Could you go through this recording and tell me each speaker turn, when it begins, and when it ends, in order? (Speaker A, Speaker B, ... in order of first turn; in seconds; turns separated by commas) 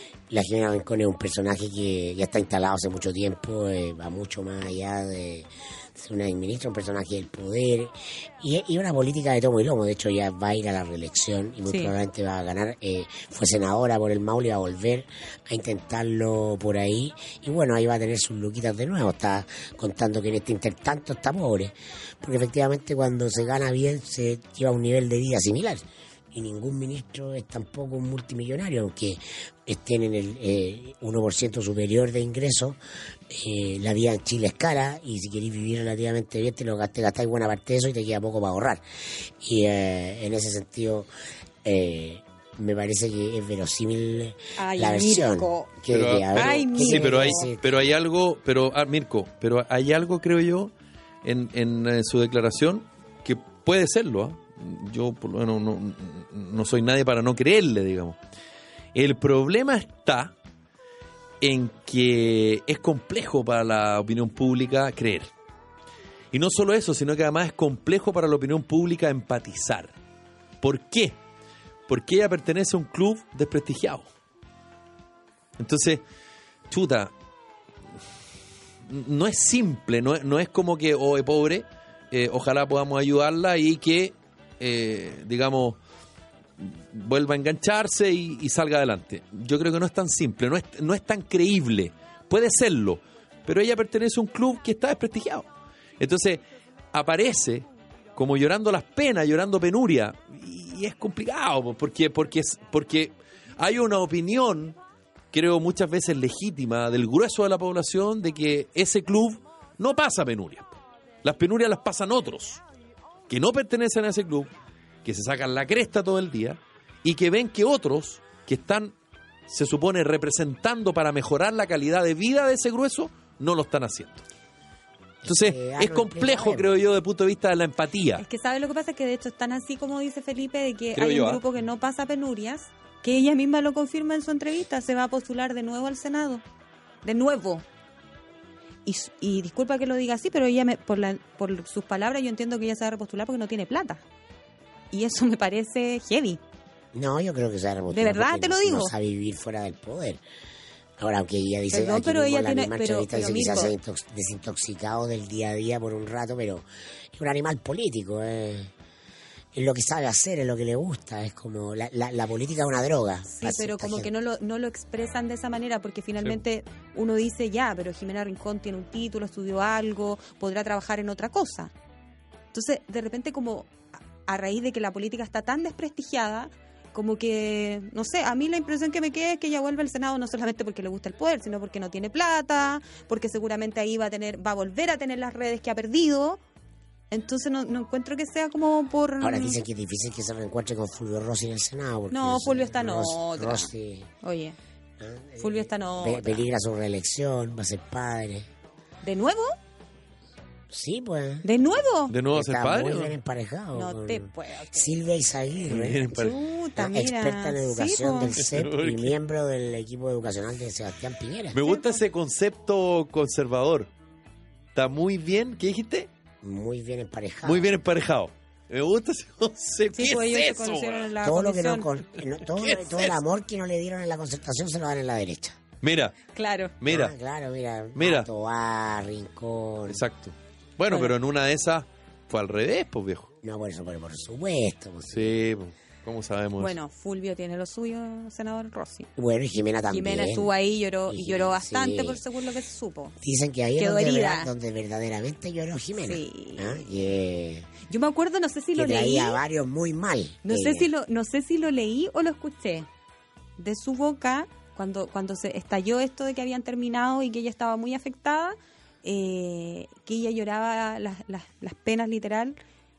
Speaker A: 0.3-32.8, Speaker B: 11.7-11.9, Speaker A: 33.3-41.1, Speaker A: 41.6-47.9, Speaker B: 44.6-45.7, Speaker C: 45.9-50.7, Speaker B: 46.3-47.5, Speaker C: 51.2-58.2, Speaker C: 58.9-60.3, Speaker C: 61.4-65.3, Speaker C: 66.3-69.9, Speaker C: 70.6-71.2, Speaker C: 71.9-74.1, Speaker C: 75.6-76.0, Speaker C: 76.7-77.1, Speaker C: 78.9-85.8, Speaker C: 86.6-95.5, Speaker C: 96.0-96.4, Speaker C: 96.9-104.8, Speaker C: 105.3-112.6, Speaker C: 113.3-114.5, Speaker C: 115.0-118.9, Speaker C: 119.5-124.2, Speaker A: 125.2-126.8, Speaker C: 125.2-128.2, Speaker B: 128.2-136.4, Speaker C: 130.9-131.4, Speaker B: 137.0-137.6, Speaker B: 138.8-144.0, Speaker B: 144.9-146.4, Speaker A: 146.9-150.2, Speaker B: 147.9-148.9, Speaker A: 151.0-158.7, Speaker B: 151.7-153.7, Speaker A: 159.5-164.1, Speaker B: 163.3-171.7, Speaker B: 172.5-173.7, Speaker B: 174.2-186.4, Speaker B: 187.1-189.6, Speaker A: 189.2-194.1, Speaker B: 192.1-193.7, Speaker B: 194.2-194.6, Speaker A: 195.0-198.5, Speaker B: 195.4-196.4, Speaker B: 199.0-199.5, Speaker A: 200.7-201.4, Speaker B: 201.4-202.1, Speaker C: 202.1-203.2, Speaker A: 202.3-206.1, Speaker B: 203.7-204.9, Speaker C: 205.7-206.3, Speaker B: 206.1-208.3, Speaker A: 206.8-211.6, Speaker C: 208.3-209.2, Speaker C: 211.5-213.9, Speaker B: 211.6-212.0, Speaker C: 214.7-216.1, Speaker A: 216.4-217.7, Speaker C: 217.4-221.1, Speaker B: 219.9-221.9, Speaker A: 221.2-225.6, Speaker C: 222.5-223.2, Speaker C: 225.8-226.1, Speaker B: 226.3-226.7, Speaker C: 226.8-227.1, Speaker A: 226.9-230.0, Speaker C: 228.0-228.3, Speaker C: 229.9-233.3, Speaker B: 230.9-231.1, Speaker A: 233.4-235.3, Speaker C: 235.1-236.7, Speaker B: 236.6-239.1, Speaker A: 239.2-240.5, Speaker B: 239.9-243.1, Speaker A: 241.1-242.2, Speaker A: 243.2-247.7, Speaker B: 243.8-244.5, Speaker B: 246.0-246.8, Speaker B: 247.8-249.4, Speaker A: 248.7-250.9, Speaker B: 250.4-252.9, Speaker B: 253.6-262.6